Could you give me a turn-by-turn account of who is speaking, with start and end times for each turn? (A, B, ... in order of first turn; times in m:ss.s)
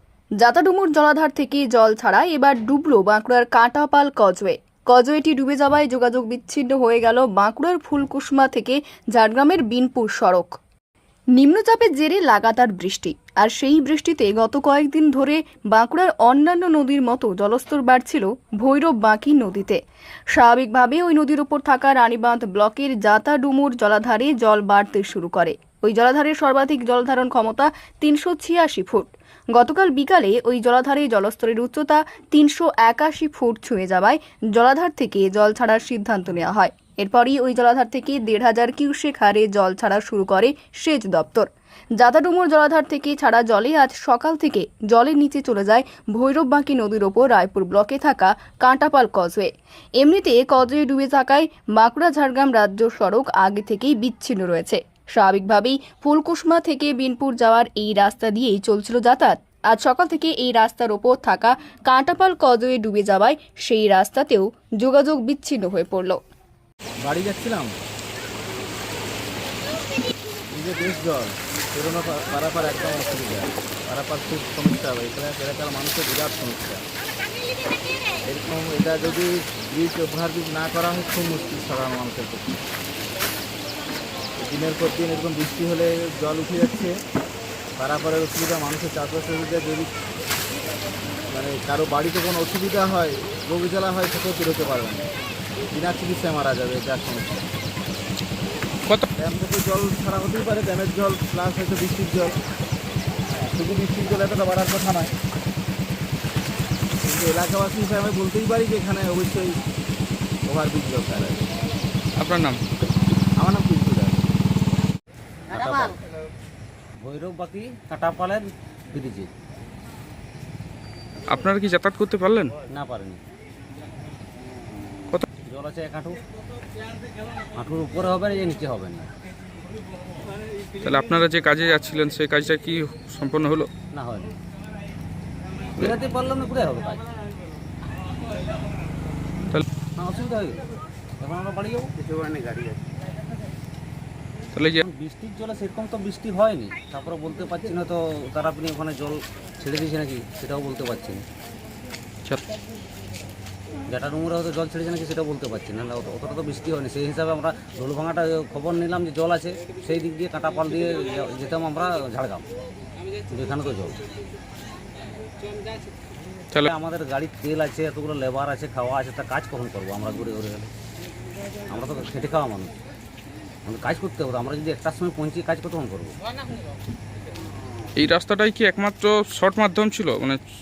0:00.4-0:10.5 A
0:11.4-0:19.8 A
0:20.3-1:06.2 A
1:07.0-1:07.8 B
1:10.5-1:16.8 B
1:18.2-1:22.6 B
1:24.4-1:27.0 B
1:27.8-1:29.9 B
1:31.3-1:35.1 B
1:35.7-1:37.4 B
1:39.2-1:42.4 B
1:43.5-1:45.1 B
1:47.0-1:49.6 B
1:50.4-1:51.4 B
1:52.2-1:52.6 C
1:53.4-1:54.2 B
1:55.5-1:56.0 D
1:57.0-1:59.3 D
2:01.3-2:02.5 C
2:02.7-2:03.2 D
2:05.4-2:06.2 D
2:07.5-2:09.1 D
2:10.8-2:13.7 C
2:13.9-2:14.3 D
2:15.8-2:17.0 D
2:20.0-2:20.6 D
2:21.2-2:22.8 D
2:24.5-2:24.8 C
2:24.8-2:31.2 D
2:33.9-2:42.5 D
2:43.3-2:44.0 D
2:46.6-2:50.7 D
2:51.7-2:52.7 D
2:53.6-2:56.2 D
2:58.0-3:00.4 C